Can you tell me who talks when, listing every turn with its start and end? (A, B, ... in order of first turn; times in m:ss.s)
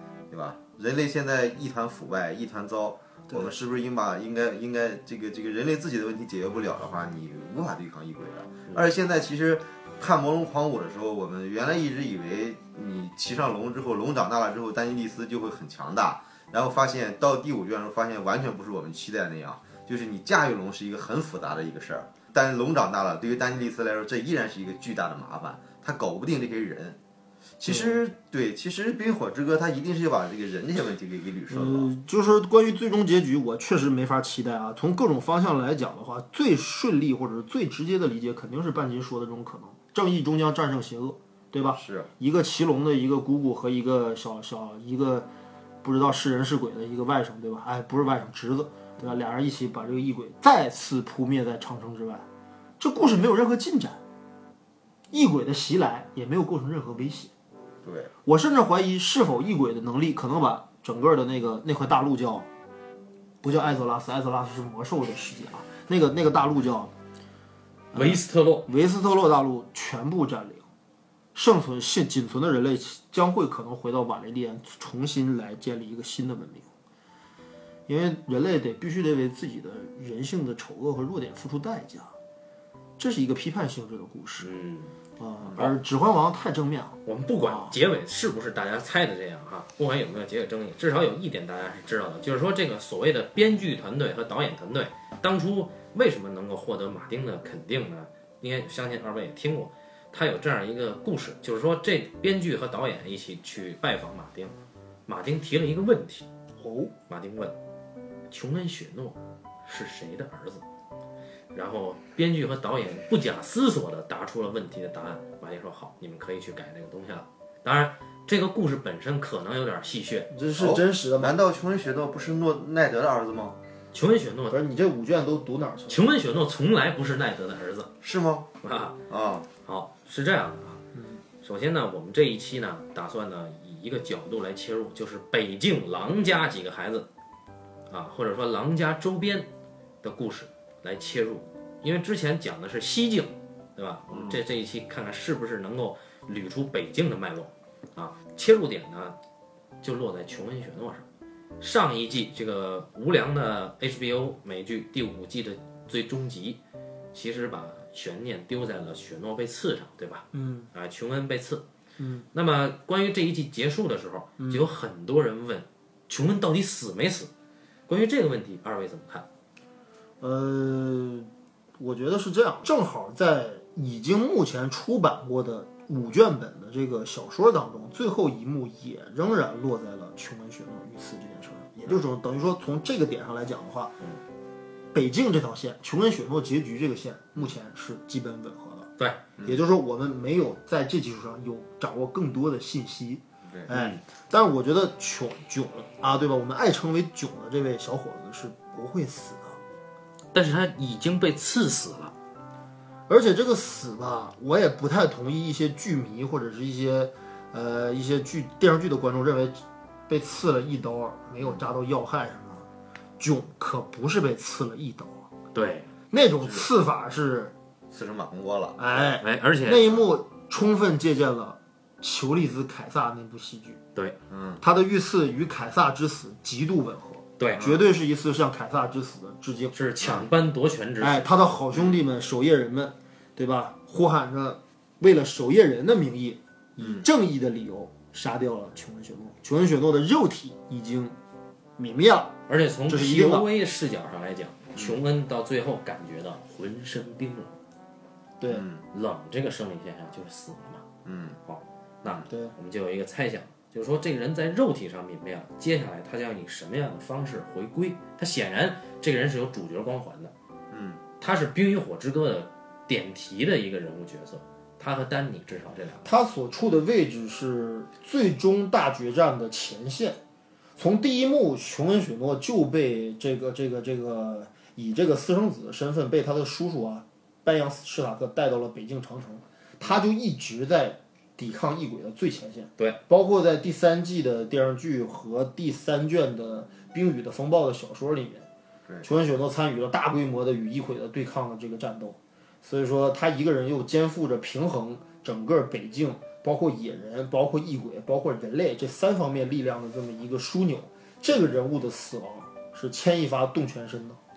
0:00.3-0:27.0 A
0:27.6-0:31.9 A
0:27.6-0:28.0 B
0:31.5-0:45.3 B
0:41.7-0:42.1 A
0:45.8-0:52.3 B
0:52.8-0:54.0 B
0:55.1-0:57.3 B
0:57.8-0:58.1 A
0:58.2-1:02.5 B
1:03.4-1:06.9 B
1:07.9-1:10.7 B
1:07.9-1:08.7 C
1:11.4-1:16.7 B
1:17.9-1:22.1 B
1:23.0-1:24.5 B
1:24.4-1:25.0 C
1:25.2-1:27.7 B
1:27.0-1:44.5 C
1:45.1-1:46.3 C
1:46.6-1:46.9 B
1:47.1-1:47.6 C
1:48.3-1:50.6 C
1:51.5-2:00.3 C
2:00.3-2:01.4 B
2:00.6-2:03.6 A
2:03.9-2:04.6 C
2:04.5-2:06.0 B
2:05.9-2:07.9 C
2:08.0-2:08.5 A
2:08.6-2:09.0 C
2:09.1-2:09.5 A
2:09.6-2:10.8 C
2:10.9-2:11.2 B
2:11.4-2:17.1 C
2:17.9-2:19.5 C
2:20.0-2:29.2 C
2:24.1-2:24.4 A
2:29.8-2:31.1 C
2:31.6-2:36.6 C
2:37.1-2:41.7 C
2:40.3-2:40.7 B
2:42.0-2:42.3 B
2:42.3-2:47.3 C
2:44.4-2:44.6 B
2:47.9-2:49.3 C
2:50.2-3:04.0 B
3:04.9-3:08.9 B
3:09.4-3:19.6 B
3:13.7-3:14.0 C
3:20.3-3:22.1 C
3:23.1-3:32.7 B
3:33.2-3:35.3 B
3:35.5-3:35.9 C
3:36.1-3:37.5 B
3:37.9-3:38.8 A
3:38.8-3:43.8 B
3:39.2-3:40.1 C
3:44.3-3:44.6 A
3:44.6-3:49.8 B
3:47.4-3:47.7 C
3:47.6-3:47.9 A
3:49.7-3:51.5 C
3:51.0-4:01.2 B
3:56.8-3:57.0 A
4:01.8-4:02.4 B
4:02.5-4:07.6 C
4:02.9-4:03.5 B
4:08.5-4:08.8 A
4:08.9-4:10.8 C
4:11.0-4:11.4 A
4:11.5-4:20.3 C
4:12.3-4:12.5 B
4:20.7-4:21.0 A
4:21.2-4:26.1 C
4:26.0-4:30.2 B
4:30.8-4:48.5 B
4:49.0-5:04.2 B